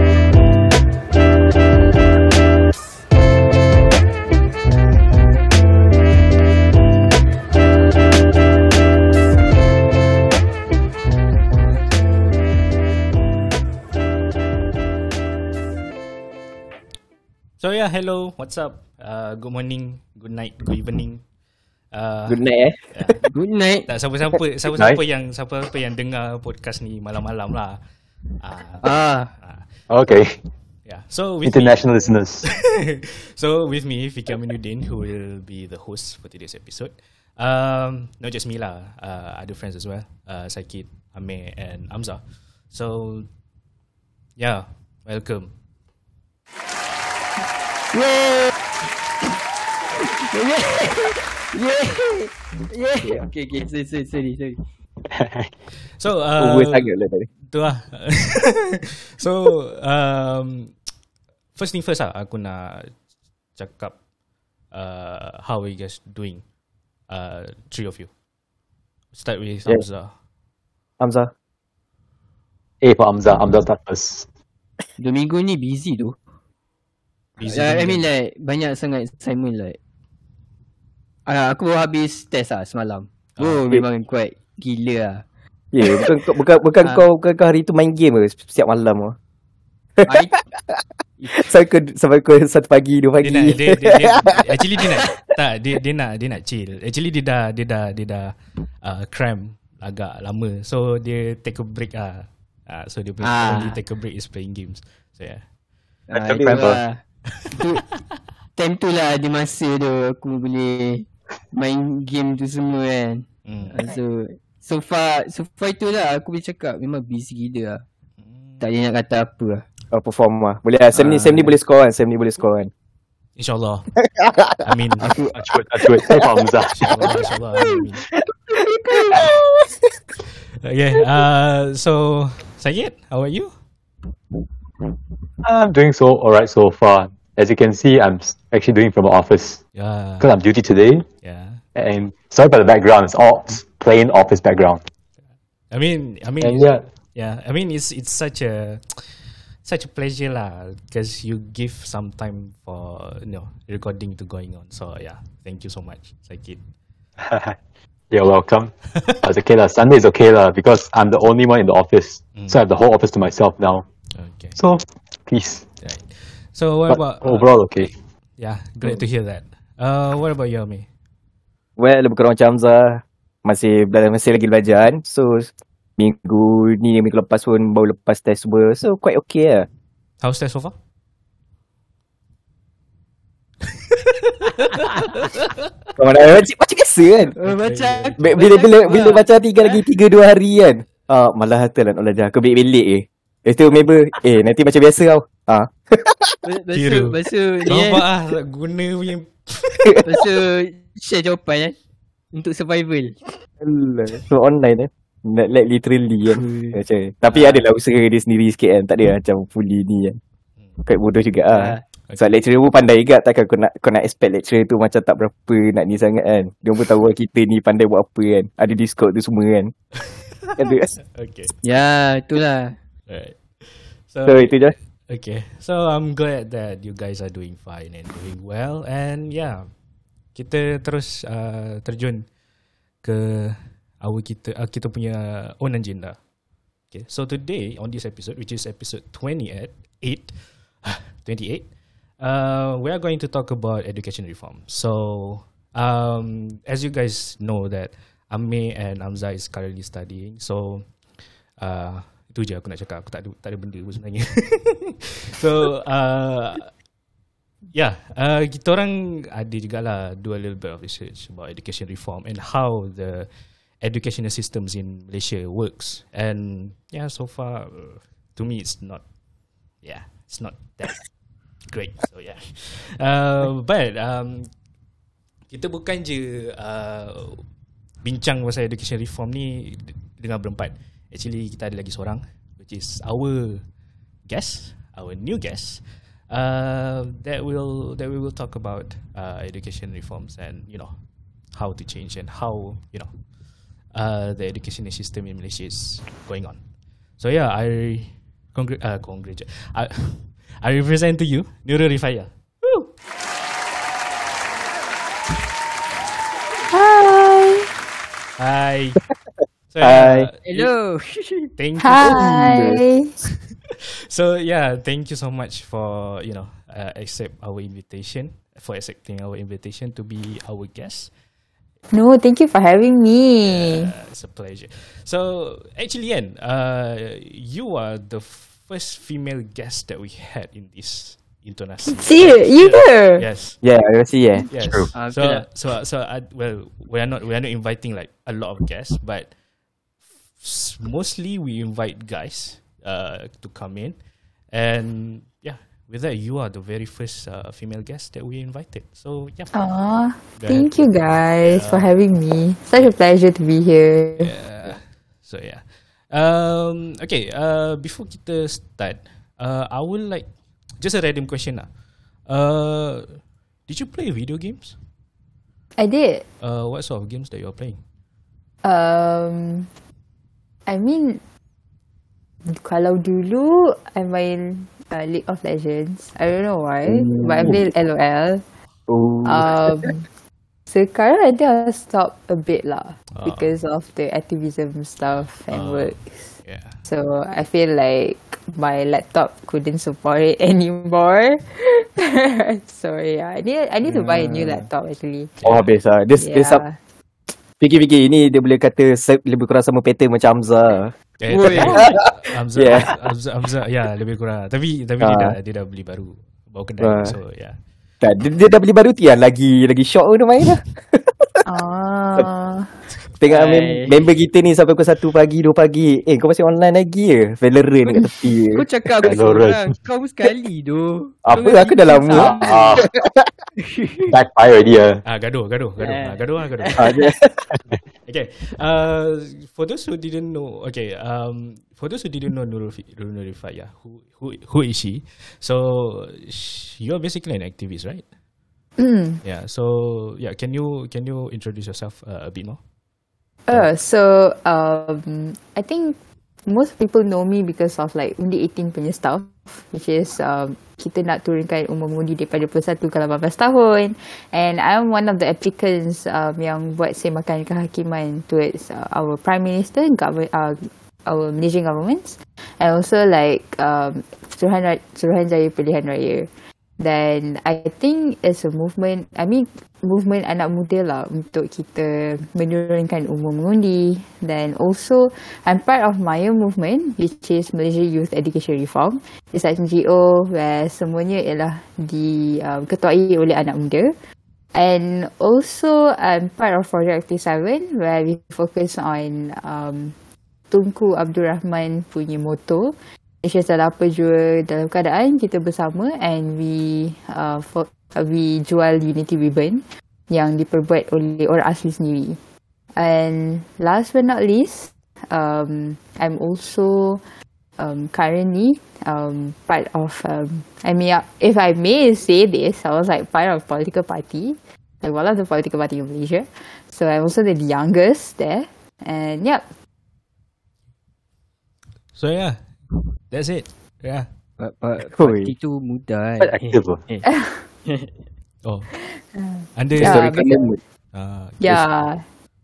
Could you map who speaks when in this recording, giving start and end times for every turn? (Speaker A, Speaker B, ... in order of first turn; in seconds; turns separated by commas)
Speaker A: 17.6-21.2, Speaker A: 21.9-23.3, Speaker B: 22.3-23.2, Speaker C: 23.3-23.9, Speaker A: 23.9-27.8, Speaker A: 28.4-29.7, Speaker C: 28.8-29.3, Speaker D: 29.9-30.4, Speaker A: 30.9-31.9, Speaker D: 31.4-32.5, Speaker A: 32.5-43.3, Speaker A: 44.4-45.5, Speaker C: 47.9-48.6, Speaker C: 50.3-54.6, Speaker D: 55.1-55.5, Speaker A: 56.0-56.9, Speaker B: 56.4-57.3, Speaker A: 57.4-60.8, Speaker A: 61.5-63.0, Speaker A: 63.6-64.0, Speaker A: 64.7-66.4, Speaker A: 67.1-68.1, Speaker A: 69.1-70.1, Speaker B: 71.0-71.3, Speaker D: 72.8-74.3, Speaker C: 75.0-76.2, Speaker A: 77.4-78.1, Speaker C: 77.5-79.8, Speaker C: 81.3-85.2, Speaker A: 83.4-83.7, Speaker B: 85.7-89.2, Speaker C: 85.8-86.1, Speaker B: 90.0-94.5, Speaker C: 90.1-90.5, Speaker A: 93.2-105.5, Speaker C: 103.2-103.8, Speaker C: 106.1-107.0, Speaker D: 106.2-106.8, Speaker C: 107.5-107.9, Speaker C: 108.6-117.8, Speaker A: 113.5-113.9, Speaker A: 118.2-118.6, Speaker C: 118.6-119.7, Speaker B: 119.9-122.7, Speaker A: 120.9-121.6, Speaker A: 123.4-123.9, Speaker B: 124.2-125.3, Speaker A: 124.6-125.1, Speaker D: 125.3-126.7, Speaker A: 126.7-128.0, Speaker C: 128.6-129.3, Speaker A: 130.6-133.6, Speaker D: 135.4-139.6, Speaker A: 139.8-140.3, Speaker D: 140.2-141.1, Speaker A: 141.2-141.6, Speaker D: 141.8-144.8, Speaker A: 145.7-156.6, Speaker D: 146.4-146.8, Speaker D: 157.2-157.6, Speaker D: 158.1-163.8, Speaker A: 164.1-164.6, Speaker D: 164.6-165.6, Speaker A: 165.8-167.6, Speaker D: 166.9-167.9, Speaker A: 168.4-170.9, Speaker B: 171.8-179.7, Speaker A: 180.2-180.8, Speaker A: 184.7-185.5, Speaker B: 186.0-187.4, Speaker A: 187.4-188.4, Speaker C: 187.4-189.7, Speaker B: 188.2-196.4, Speaker C: 196.4-198.0, Speaker A: 196.7-200.0, Speaker C: 200.1-201.8, Speaker C: 202.3-203.4, Speaker B: 203.6-210.2, Speaker C: 206.3-206.8, Speaker A: 207.3-207.6, Speaker B: 210.8-219.7, Speaker C: 211.5-211.8, Speaker B: 220.6-221.0, Speaker A: 221.1-221.5, Speaker C: 221.6-222.8, Speaker A: 223.1-229.7, Speaker B: 224.2-224.8, Speaker A: 230.3-232.3, Speaker A: 233.0-236.2, Speaker A: 236.9-241.7, Speaker A: 242.2-250.9, Speaker A: 251.6-256.7, Speaker A: 257.7-269.1, Speaker A: 269.8-271.1, Speaker A: 271.7-274.5, Speaker A: 275.5-277.5, Speaker A: 278.0-283.6, Speaker A: 284.3-290.9, Speaker A: 291.5-293.1, Speaker A: 293.9-296.6, Speaker A: 297.2-302.9, Speaker E: 306.7-307.8, Speaker A: 308.4-309.0, Speaker A: 309.7-310.7, Speaker B: 309.8-310.3, Speaker C: 310.5-311.5, Speaker A: 311.6-312.5, Speaker E: 311.8-313.2, Speaker B: 312.0-312.8, Speaker A: 314.1-321.1, Speaker E: 321.9-323.9, Speaker A: 323.4-333.6, Speaker E: 331.9-333.3, Speaker B: 333.6-334.5, Speaker A: 334.5-339.3, Speaker D: 334.5-334.9, Speaker C: 334.9-335.5, Speaker A: 340.4-344.0, Speaker A: 344.5-349.5, Speaker E: 349.5-354.4, Speaker A: 350.4-351.9, Speaker A: 354.2-360.3, Speaker A: 360.8-361.7, Speaker A: 362.3-364.8, Speaker E: 365.8-366.2, Speaker A: 366.4-367.8, Speaker E: 368.6-369.7, Speaker E: 370.7-371.2, Speaker E: 372.5-378.4, Speaker B: 376.9-377.7, Speaker B: 378.9-379.8, Speaker E: 379.2-380.1, Speaker E: 380.7-386.3, Speaker A: 383.1-383.5, Speaker A: 385.5-386.8, Speaker E: 386.9-395.4, Speaker C: 393.9-394.7, Speaker A: 395.4-395.8, Speaker B: 395.4-396.6, Speaker E: 396.2-396.8, Speaker B: 397.6-400.9, Speaker A: 401.2-407.6, Speaker C: 401.3-401.9, Speaker B: 401.5-403.0, Speaker B: 405.0-405.4, Speaker B: 406.8-407.2, Speaker B: 408.0-411.4, Speaker E: 411.4-412.8, Speaker B: 413.2-418.7, Speaker C: 413.3-414.0, Speaker C: 418.5-422.8, Speaker D: 419.0-419.8, Speaker B: 421.2-423.3, Speaker D: 422.1-422.9, Speaker C: 423.6-424.1, Speaker D: 424.1-425.0, Speaker A: 425.1-426.9, Speaker C: 425.8-427.0, Speaker B: 426.8-427.5, Speaker A: 428.1-438.1, Speaker E: 438.8-439.2, Speaker A: 439.2-442.6, Speaker E: 443.5-483.9, Speaker E: 484.5-489.9, Speaker E: 490.5-502.2, Speaker E: 502.8-507.0, Speaker E: 507.6-519.5, Speaker A: 522.0-522.5, Speaker A: 523.1-524.1, Speaker C: 524.4-527.1, Speaker B: 525.0-525.3, Speaker D: 526.2-526.8, Speaker E: 527.0-527.4, Speaker C: 527.6-527.9, Speaker A: 528.4-528.7, Speaker E: 528.9-530.5, Speaker A: 529.5-530.2, Speaker B: 529.8-530.6, Speaker A: 530.9-531.8, Speaker E: 531.4-532.0